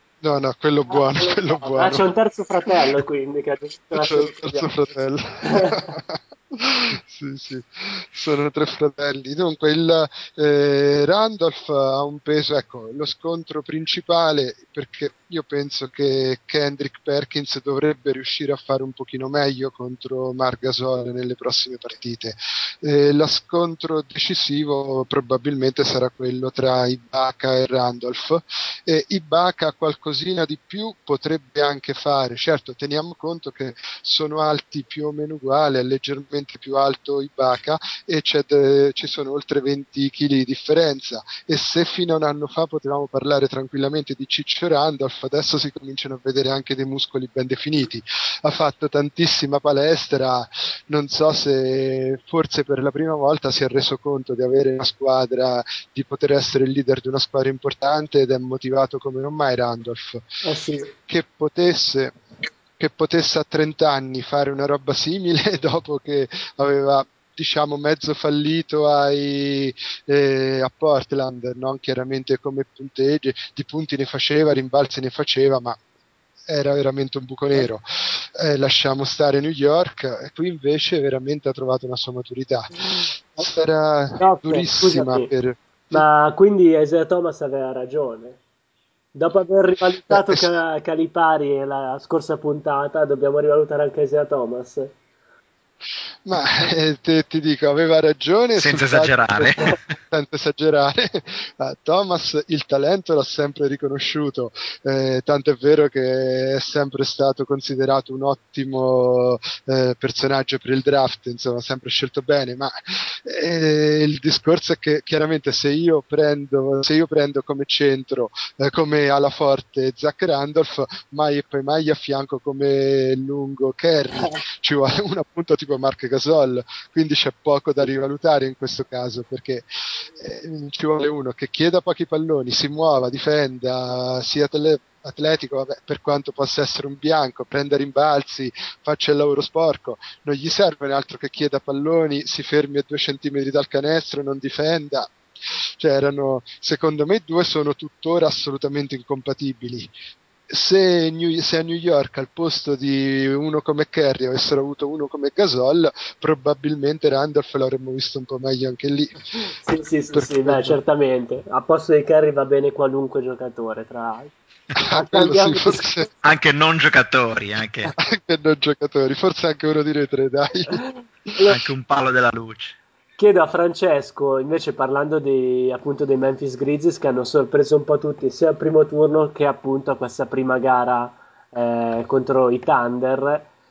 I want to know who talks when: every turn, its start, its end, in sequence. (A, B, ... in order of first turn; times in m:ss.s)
0:00.2-0:02.1 A
0:00.9-0:04.7 B
0:03.9-1:00.3 A
0:05.5-0:05.8 B
1:00.4-1:00.9 B
1:00.8-1:02.1 A
1:02.8-1:15.8 A
1:16.5-1:26.0 A
1:24.2-1:25.3 B
1:25.9-1:28.4 B
1:29.2-1:35.0 B
1:30.1-1:30.4 A
1:36.2-2:25.1 A
1:38.6-1:39.8 C
2:25.8-2:29.9 A
2:30.5-2:39.3 A
2:39.5-2:45.9 B
2:40.1-2:40.8 A
2:44.8-2:46.1 A
2:46.2-2:47.9 C
2:48.0-2:50.8 A
2:51.5-2:52.8 C
2:53.2-3:03.5 B